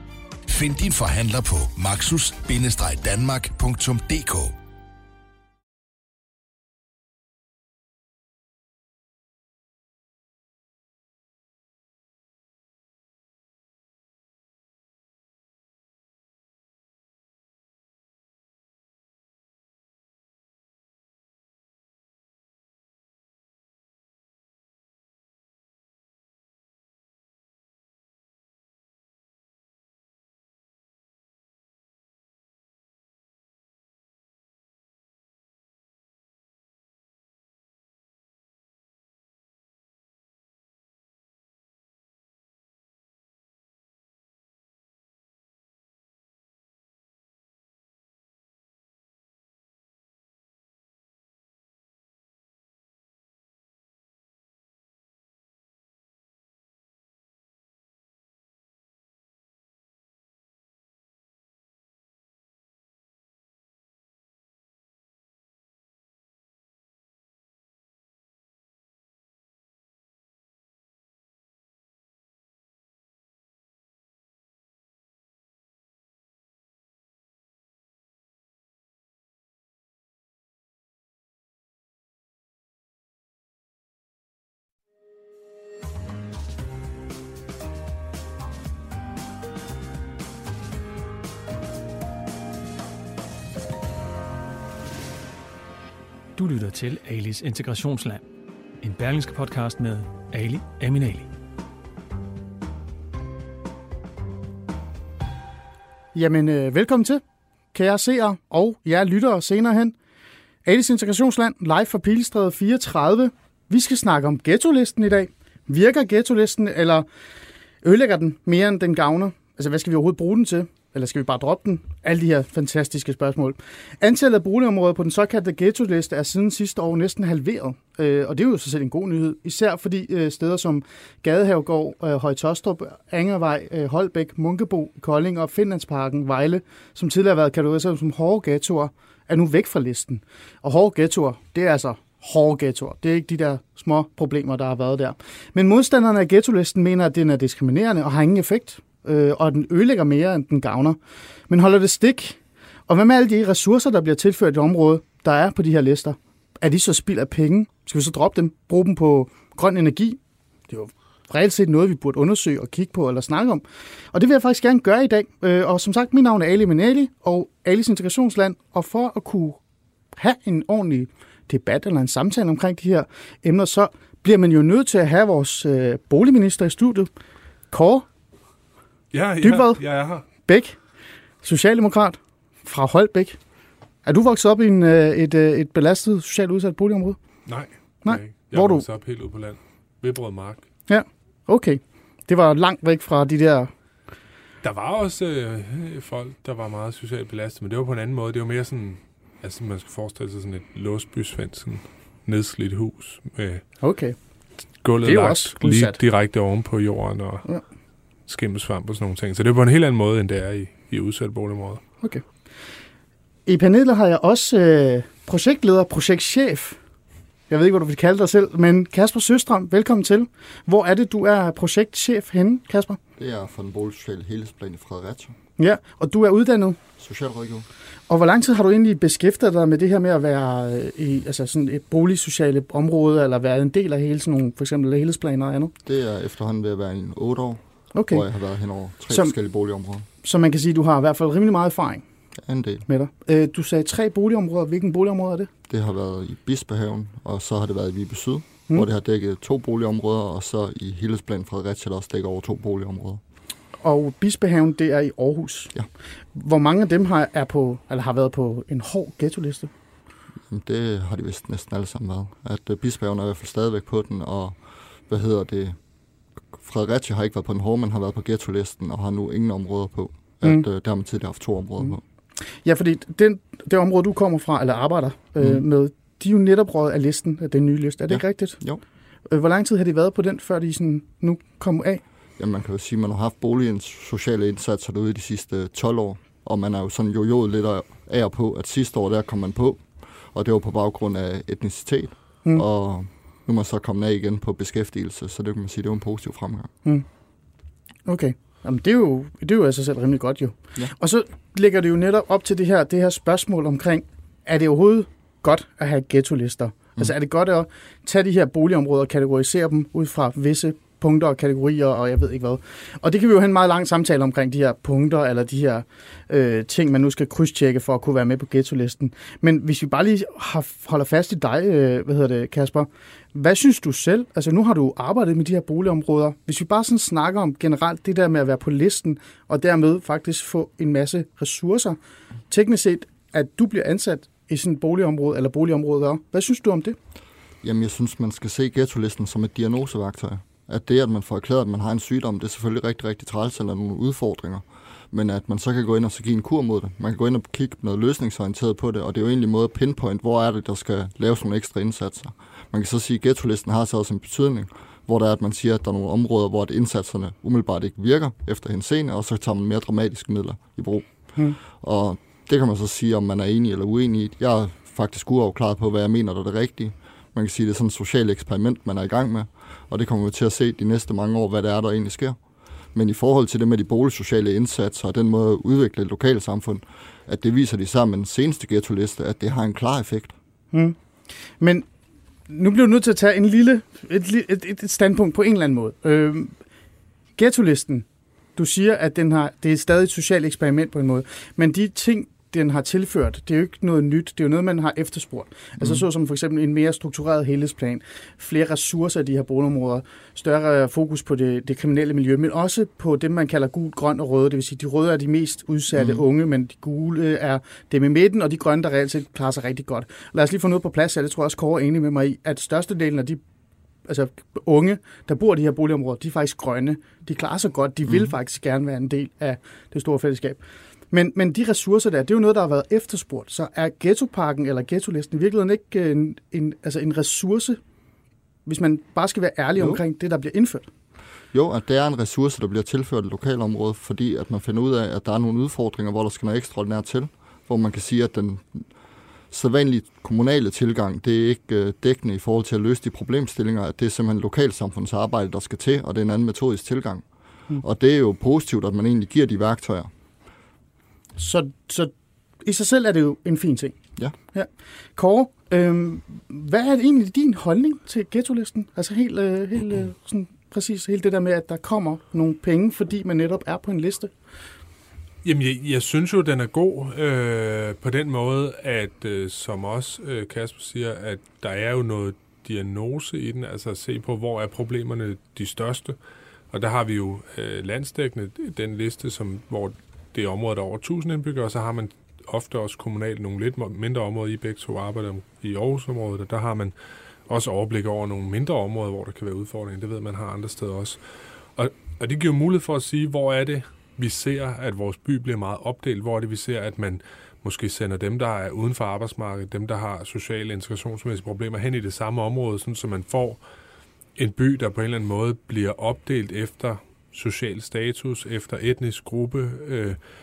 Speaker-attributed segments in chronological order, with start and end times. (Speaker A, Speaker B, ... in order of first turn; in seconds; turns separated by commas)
Speaker A: 0.5-4.5, Speaker B: 96.4-98.2, Speaker B: 98.8-101.3, Speaker C: 106.1-107.2, Speaker C: 107.7-109.9, Speaker C: 110.6-117.0, Speaker C: 117.8-151.0, Speaker C: 151.5-160.2, Speaker C: 160.7-169.6, Speaker C: 170.1-177.1, Speaker C: 177.7-178.0, Speaker D: 179.1-180.2, Speaker C: 179.4-180.8, Speaker C: 181.4-183.4, Speaker C: 184.0-187.2, Speaker D: 187.5-190.6, Speaker C: 188.0-188.8, Speaker C: 190.9-193.7, Speaker D: 194.6-203.6, Speaker C: 203.8-204.2, Speaker D: 204.8-207.5, Speaker C: 205.0-206.0, Speaker D: 208.3-211.8, Speaker C: 213.4-216.8, Speaker C: 217.5-223.0, Speaker E: 223.2-225.3, Speaker C: 225.6-226.8, Speaker E: 227.0-227.7, Speaker C: 228.1-235.7, Speaker E: 235.8-240.1, Speaker C: 237.9-238.2, Speaker C: 240.2-242.0, Speaker E: 242.4-242.8, Speaker C: 242.9-245.5, Speaker E: 245.7-253.2, Speaker C: 253.8-255.7, Speaker C: 256.3-259.7, Speaker E: 260.5-264.6, Speaker E: 265.1-265.8, Speaker E: 266.5-272.0, Speaker C: 272.6-278.6, Speaker E: 278.1-278.8, Speaker C: 279.3-282.0, Speaker E: 282.4-296.7, Speaker C: 298.1-332.0, Speaker C: 332.5-336.9, Speaker E: 337.6-361.1, Speaker E: 361.6-372.4, Speaker E: 372.9-380.3, Speaker C: 381.6-381.9, Speaker C: 382.5-386.5, Speaker C: 387.4-388.0, Speaker C: 388.6-413.4, Speaker E: 395.8-396.0, Speaker E: 405.9-406.2, Speaker C: 414.0-420.6, Speaker E: 418.1-418.3, Speaker C: 421.1-427.8, Speaker C: 428.6-430.9, Speaker E: 431.5-438.9, Speaker E: 439.5-447.2, Speaker E: 447.8-450.1, Speaker C: 451.4-452.1, Speaker C: 452.6-453.9, Speaker C: 454.5-464.3, Speaker D: 465.4-476.1, Speaker D: 476.7-486.9, Speaker D: 487.5-491.2, Speaker D: 491.8-503.6, Speaker D: 504.4-510.2